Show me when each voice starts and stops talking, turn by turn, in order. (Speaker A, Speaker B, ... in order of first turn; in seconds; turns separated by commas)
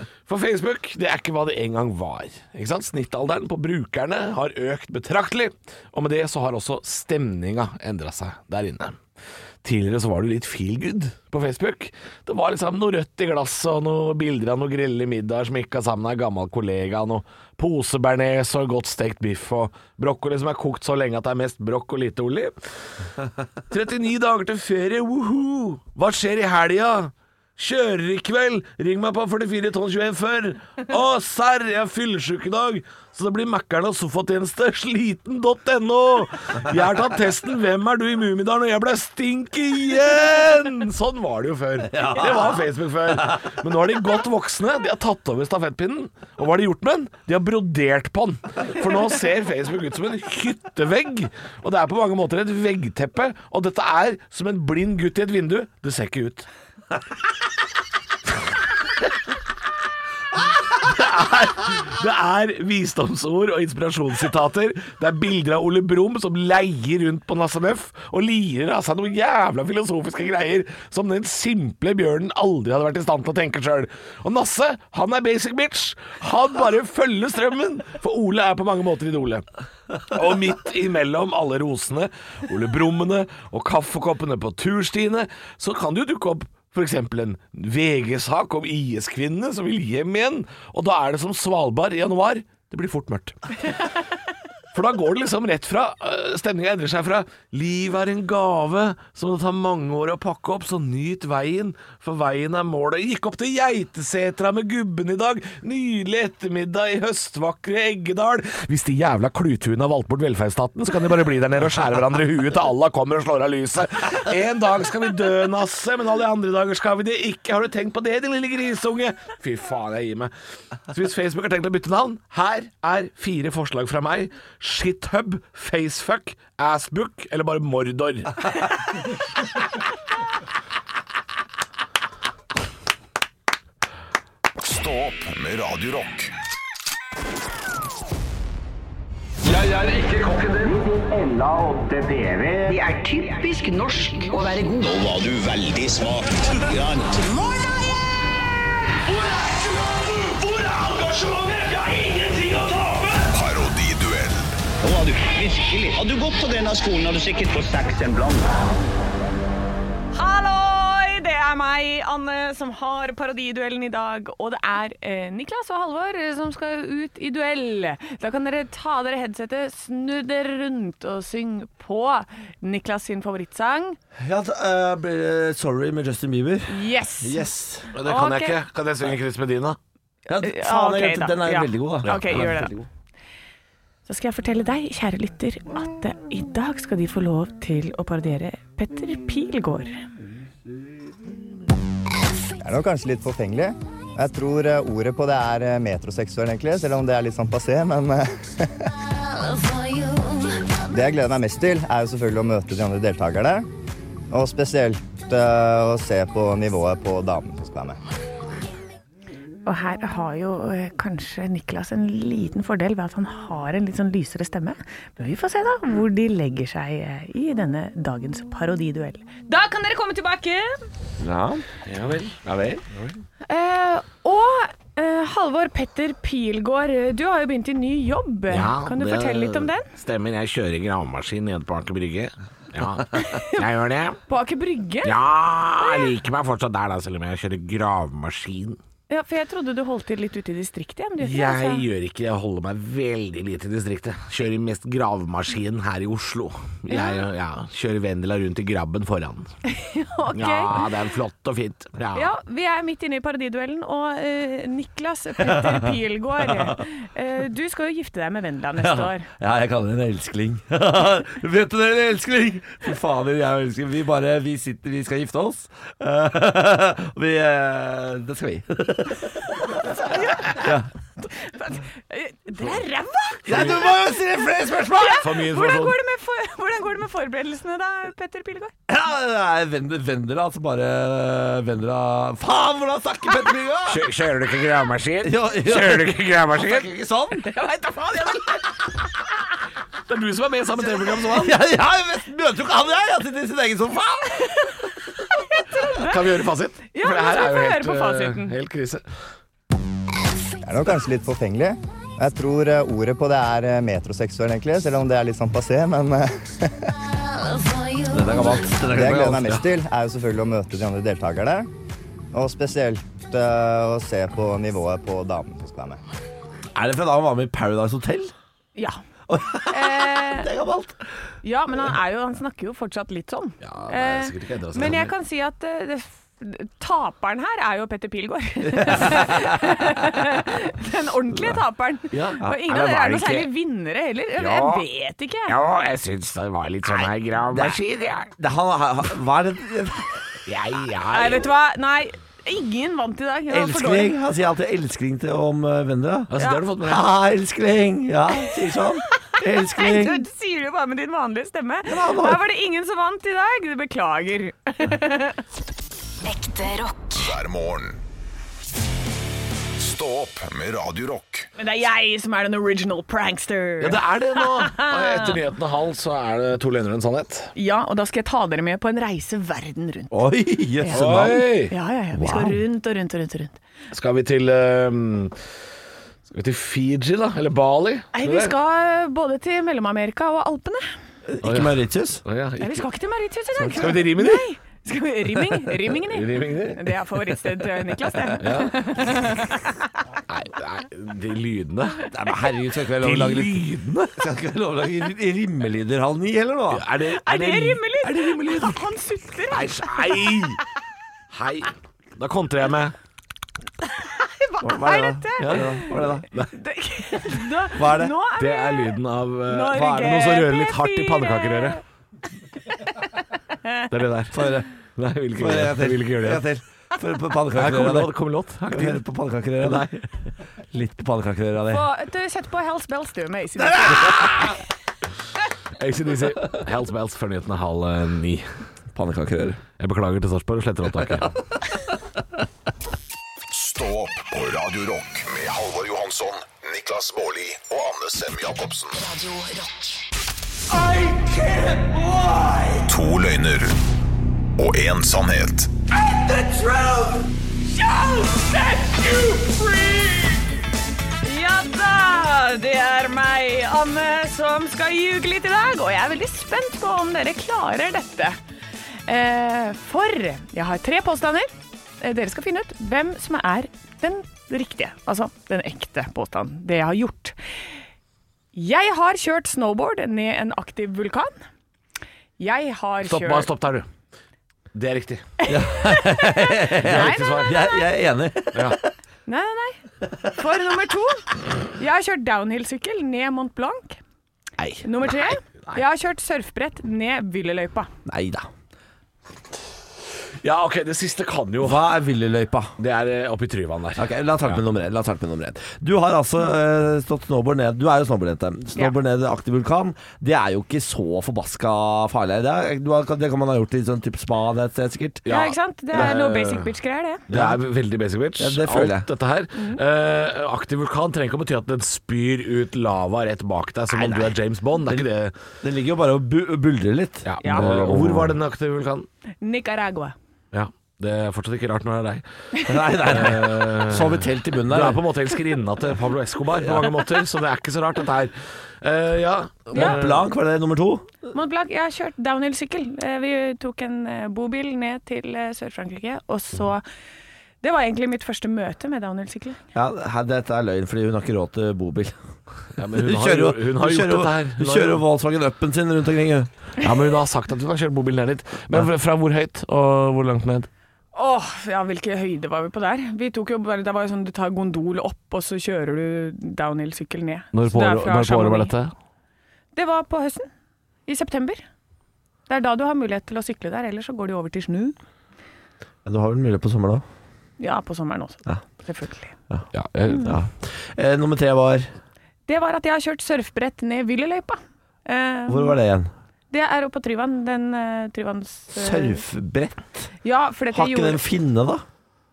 Speaker A: 0.3-9.0, Speaker A: 9.6-22.5, Speaker A: 23.7-56.5, Speaker B: 41.9-42.6, Speaker A: 60.7-79.4, Speaker A: 80.1-93.4, Speaker A: 94.7-120.3, Speaker A: 120.9-128.5, Speaker C: 134.6-136.3, Speaker D: 139.4-147.8, Speaker D: 149.0-153.3, Speaker C: 153.3-154.6, Speaker D: 154.8-158.7, Speaker E: 160.1-174.0, Speaker B: 174.2-177.9, Speaker E: 176.7-178.6, Speaker A: 177.9-179.8, Speaker B: 180.3-182.8, Speaker E: 180.4-182.7, Speaker A: 182.1-182.5, Speaker E: 184.1-190.0, Speaker F: 192.6-198.7, Speaker F: 200.9-203.7, Speaker F: 204.3-208.0, Speaker E: 209.6-220.9, Speaker B: 221.2-221.7, Speaker A: 221.8-223.1, Speaker E: 223.4-229.9, Speaker A: 228.5-234.2, Speaker E: 233.1-233.6, Speaker E: 234.3-235.2, Speaker A: 235.0-238.8, Speaker E: 235.8-236.1, Speaker E: 239.1-241.8, Speaker A: 241.2-249.5, Speaker E: 246.9-247.2, Speaker E: 249.7-250.8, Speaker A: 250.3-252.3, Speaker E: 252.1-259.2, Speaker B: 255.4-255.9, Speaker B: 256.5-256.8, Speaker B: 258.8-269.9, Speaker E: 269.8-273.9, Speaker B: 270.6-270.9, Speaker B: 273.4-275.3, Speaker A: 273.5-273.9, Speaker E: 274.9-278.7, Speaker A: 275.2-275.9, Speaker B: 278.9-284.1, Speaker A: 283.9-286.9, Speaker B: 285.2-287.5, Speaker E: 287.6-288.5, Speaker A: 290.1-291.6, Speaker B: 291.2-294.7, Speaker E: 295.3-296.2, Speaker A: 295.9-299.0, Speaker E: 296.9-298.5, Speaker F: 300.6-306.9, Speaker B: 308.1-309.6, Speaker F: 308.9-311.7, Speaker F: 312.3-316.0, Speaker B: 316.7-318.3, Speaker B: 319.3-321.0, Speaker E: 319.7-320.5, Speaker E: 321.4-335.5, Speaker A: 323.6-325.1, Speaker B: 328.7-329.7, Speaker A: 332.1-333.5, Speaker A: 334.4-334.8, Speaker A: 335.5-338.3, Speaker B: 337.5-337.8, Speaker B: 338.4-340.2, Speaker A: 340.4-341.5, Speaker E: 341.1-344.1, Speaker B: 343.5-346.3, Speaker A: 346.3-347.1, Speaker B: 346.8-350.2, Speaker E: 349.2-355.4, Speaker B: 351.8-352.4, Speaker G: 356.2-357.2, Speaker C: 357.2-358.0, Speaker C: 359.8-361.5, Speaker E: 361.6-365.4, Speaker A: 363.8-367.5, Speaker E: 367.5-370.2, Speaker B: 370.1-371.4, Speaker E: 370.8-373.6, Speaker A: 370.9-371.7, Speaker B: 372.1-372.6, Speaker A: 373.9-375.3, Speaker A: 376.3-378.5, Speaker E: 378.1-380.9, Speaker B: 381.3-382.2, Speaker A: 381.4-382.9, Speaker E: 382.6-389.8, Speaker B: 383.5-384.1, Speaker A: 383.8-384.5, Speaker A: 385.9-386.9, Speaker A: 388.4-389.2, Speaker A: 390.3-392.1, Speaker B: 392.1-396.8, Speaker A: 393.0-394.2, Speaker A: 396.7-398.8, Speaker E: 397.1-400.6, Speaker A: 399.5-400.6, Speaker A: 401.3-402.9, Speaker E: 403.8-411.8, Speaker B: 404.6-406.3, Speaker B: 407.7-408.1, Speaker A: 408.4-411.8, Speaker B: 409.7-410.2, Speaker A: 413.9-414.4, Speaker B: 414.3-414.7, Speaker A: 415.0-416.5, Speaker B: 415.4-418.1, Speaker A: 417.5-419.0, Speaker B: 418.7-419.9, Speaker A: 419.6-420.0, Speaker B: 420.7-421.8, Speaker E: 421.7-424.5, Speaker B: 423.6-424.5, Speaker A: 425.8-428.6, Speaker B: 428.9-429.6, Speaker A: 429.8-431.3, Speaker C: 433.5-439.0, Speaker G: 438.9-440.0, Speaker C: 442.8-443.8, Speaker C: 444.6-445.7, Speaker E: 447.7-449.8, Speaker E: 451.2-458.4, Speaker E: 459.1-467.7, Speaker E: 468.5-471.4, Speaker E: 472.4-473.5, Speaker A: 473.0-473.9, Speaker A: 474.7-475.3, Speaker E: 475.4-477.9, Speaker B: 475.5-478.9, Speaker A: 476.8-477.5, Speaker E: 479.2-484.0, Speaker E: 484.8-487.9, Speaker B: 488.1-488.5, Speaker A: 490.4-491.9, Speaker B: 491.6-492.7, Speaker A: 492.8-494.6, Speaker B: 493.9-505.3, Speaker A: 505.2-506.7, Speaker E: 505.2-507.2, Speaker A: 507.3-515.3, Speaker B: 507.3-507.6, Speaker B: 508.4-509.1, Speaker E: 509.6-509.8, Speaker B: 513.9-515.1, Speaker B: 515.6-518.4, Speaker A: 517.2-519.1, Speaker E: 517.4-517.7, Speaker E: 519.4-520.1, Speaker A: 520.5-522.2, Speaker B: 522.6-525.0, Speaker A: 523.0-530.2, Speaker B: 526.6-526.9, Speaker E: 529.7-530.0, Speaker B: 529.7-531.1, Speaker E: 531.3-536.8, Speaker E: 537.6-539.6, Speaker B: 539.7-542.1, Speaker A: 542.8-545.0, Speaker B: 542.8-546.5, Speaker A: 546.8-550.7, Speaker E: 551.1-558.7, Speaker A: 557.5-558.9, Speaker E: 559.7-560.5, Speaker E: 561.1-561.6, Speaker E: 562.5-565.0, Speaker B: 566.0-567.0, Speaker E: 567.6-569.3, Speaker B: 569.5-571.9, Speaker A: 569.7-570.4, Speaker E: 572.5-575.8, Speaker B: 575.5-576.1, Speaker E: 576.5-579.2, Speaker B: 578.7-580.1, Speaker E: 580.2-581.2, Speaker B: 580.7-581.8